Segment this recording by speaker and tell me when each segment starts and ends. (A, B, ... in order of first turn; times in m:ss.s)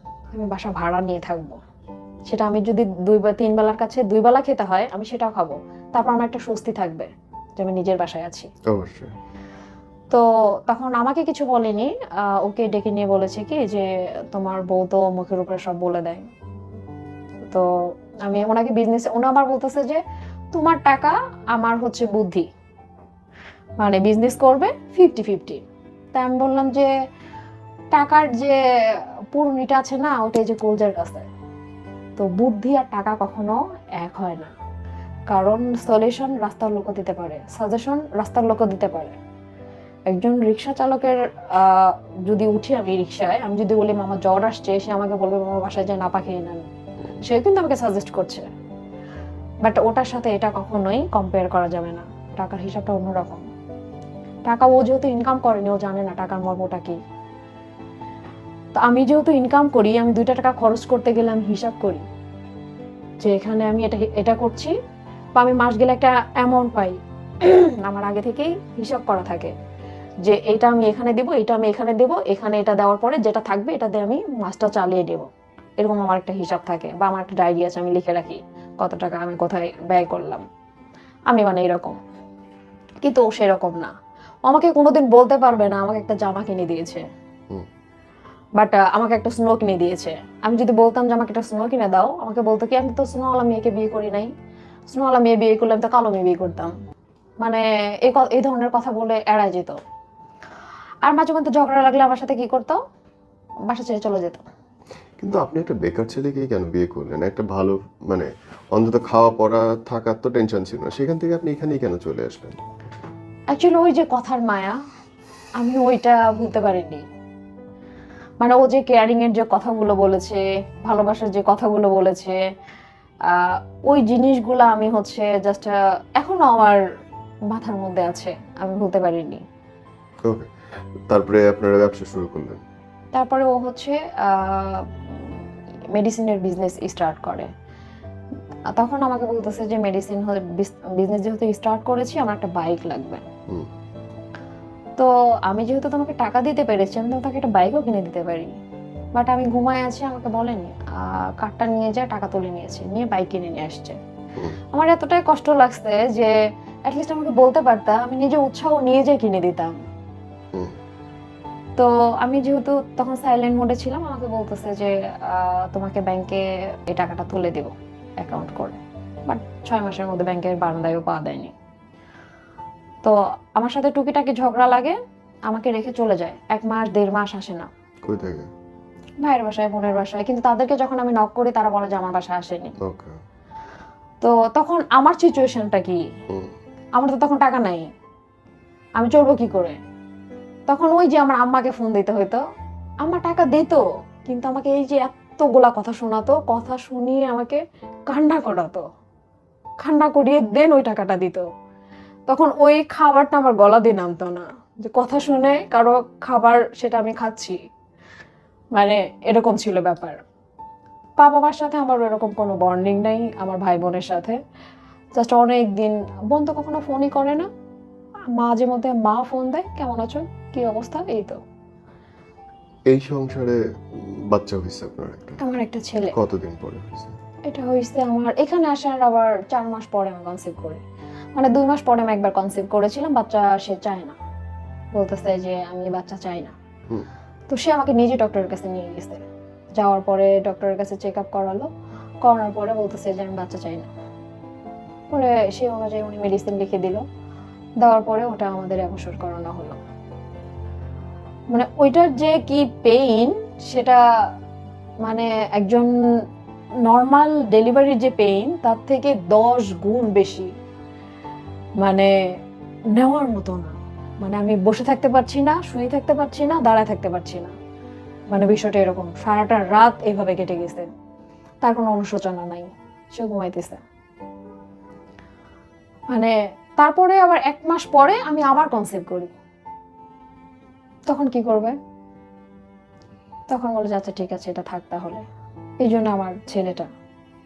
0:00.3-0:01.6 A
0:02.3-0:08.5 A
0:08.7-0:09.1 B
0:10.1-0:16.2 A
0:18.2-0:20.0 A
0:20.5-0:22.5 A
0:23.8-0:25.6 A
0:26.1-0:26.9 A
0:27.9-0:28.6 A
0:29.3-0:31.3 A
0:32.2-0:34.5 A
0:35.3-0:39.2 A
0:40.1-0:46.7 A
0:47.2-0:48.5 A
0:49.6-0:53.4 A
0:54.4-0:57.0 A
0:58.8-1:02.0 A
1:03.2-1:04.7 A
1:05.4-1:09.5 A
1:10.2-1:15.3 A
1:15.8-1:20.4 A
1:21.3-1:22.0 A
1:23.0-1:23.9 A
1:24.4-1:27.0 A
1:28.6-1:34.3 A
1:34.9-1:36.7 A
1:37.4-1:39.8 A
1:41.0-1:42.8 A
1:43.7-1:44.4 A
1:45.2-1:52.6 B
1:53.5-1:54.8 A
1:55.6-1:57.0 A
1:58.4-2:02.4 A
2:03.2-2:06.8 A
2:07.5-2:09.4 A
2:10.2-2:10.5 B
2:11.1-2:12.6 B
2:13.1-2:15.4 A
2:15.9-2:17.5 A
2:18.7-2:23.3 A
2:25.0-2:28.5 A
2:29.1-2:34.0 A
2:34.7-2:36.3 A
2:36.9-2:39.8 A
2:41.8-2:51.5 A
2:53.0-2:55.0 A
2:55.5-2:57.7 A
2:58.0-2:58.5 B
2:59.2-3:02.7 A
3:02.8-3:03.1 B
3:04.2-3:06.0 A
3:06.3-3:06.5 B
3:07.0-3:07.9 A
3:09.0-3:09.8 A
3:10.7-3:12.4 A
3:13.0-3:18.8 A
3:19.8-3:21.5 A
3:22.3-3:27.6 A
3:28.7-3:30.2 A
3:31.2-3:34.4 A
3:35.1-3:37.5 A
3:38.3-3:41.4 A
3:42.9-3:45.4 B
3:45.4-3:46.1 A
3:46.1-3:47.2 B
3:47.4-3:50.8 A
3:51.4-3:54.1 A
3:54.9-3:56.5 A
3:57.5-3:59.2 A
3:59.8-4:01.7 A
4:02.2-4:03.9 A
4:05.1-4:07.0 A
4:07.8-4:09.8 A
4:11.5-4:14.0 A
4:15.0-4:15.9 A
4:16.8-4:20.5 A
4:21.8-4:22.1 A
4:22.9-4:27.5 A
4:28.3-4:30.9 A
4:31.6-4:33.8 A
4:36.1-4:39.3 A
4:41.1-4:41.8 A
4:43.5-4:45.2 A
4:45.8-4:46.9 A